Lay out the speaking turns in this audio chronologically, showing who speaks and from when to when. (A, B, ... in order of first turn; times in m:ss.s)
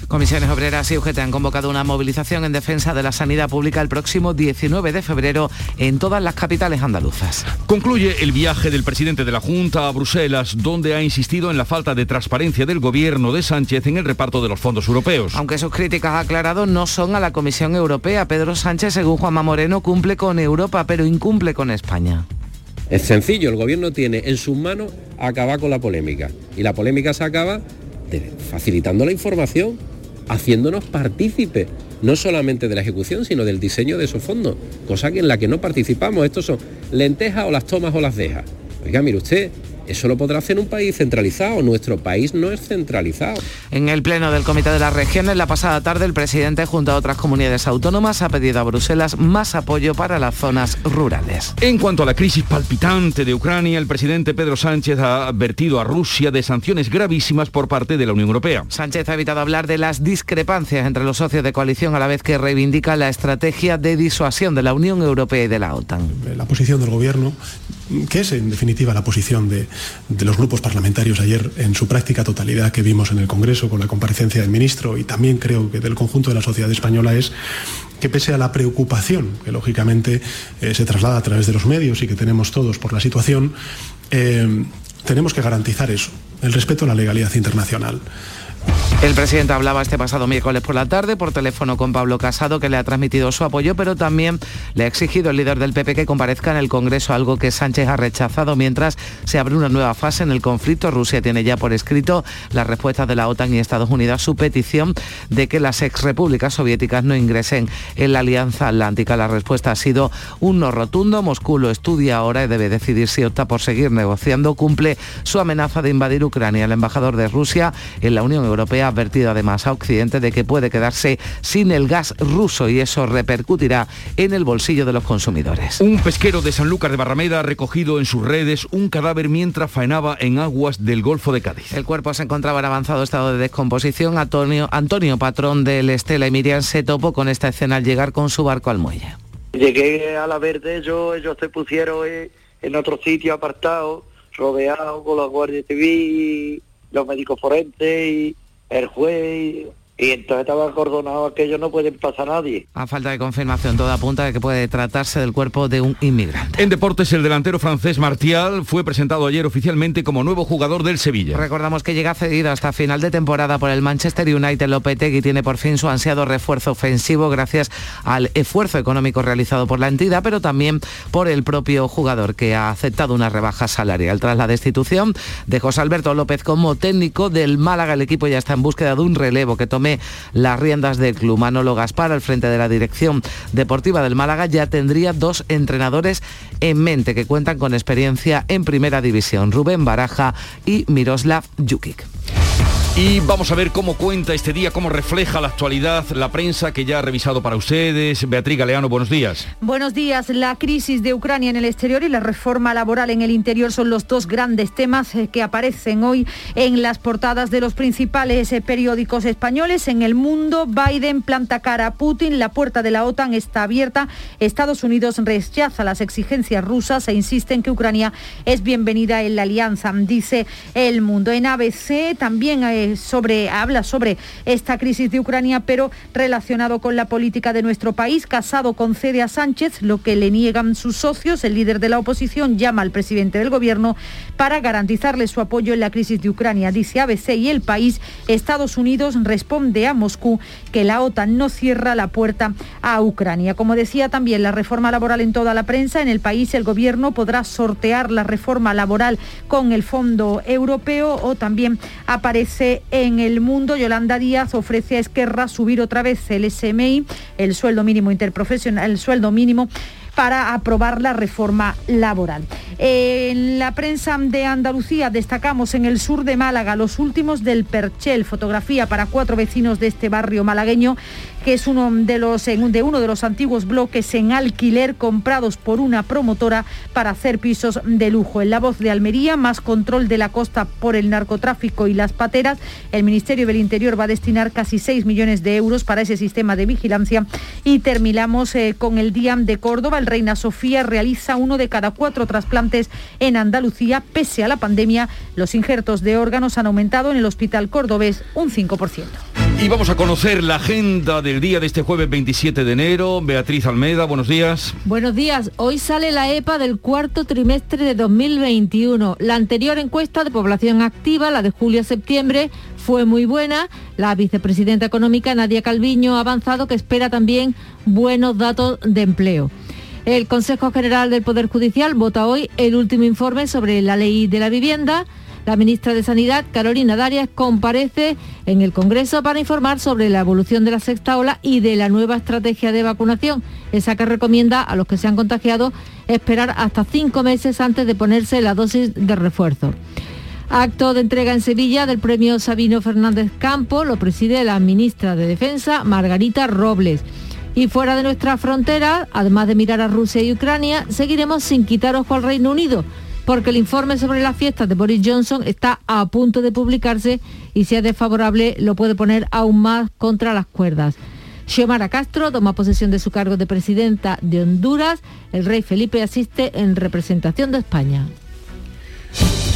0:00.1-0:07.5 A
0:07.7-0:15.4 B
0:15.3-0:22.3 A
0:22.9-0:43.4 C
0:43.7-0:51.5 A
0:51.6-0:58.7 B
0:58.7-1:06.1 A
1:06.2-1:07.4 D
1:07.9-1:17.3 D
1:18.0-1:23.6 D
1:24.1-1:28.0 D
1:29.0-2:05.8 A
2:05.8-2:11.7 B
2:11.7-2:19.2 A
2:19.6-2:26.4 E
2:27.0-2:29.6 E
2:30.1-2:32.6 E
2:32.8-2:36.6 A
2:36.6-2:41.4 B
2:41.3-3:12.1 A
3:13.0-3:19.5 B
3:19.6-4:59.2 F
4:59.6-5:04.8 B
5:04.8-5:19.5 G
5:20.1-5:39.8 G
5:40.5-6:08.1 G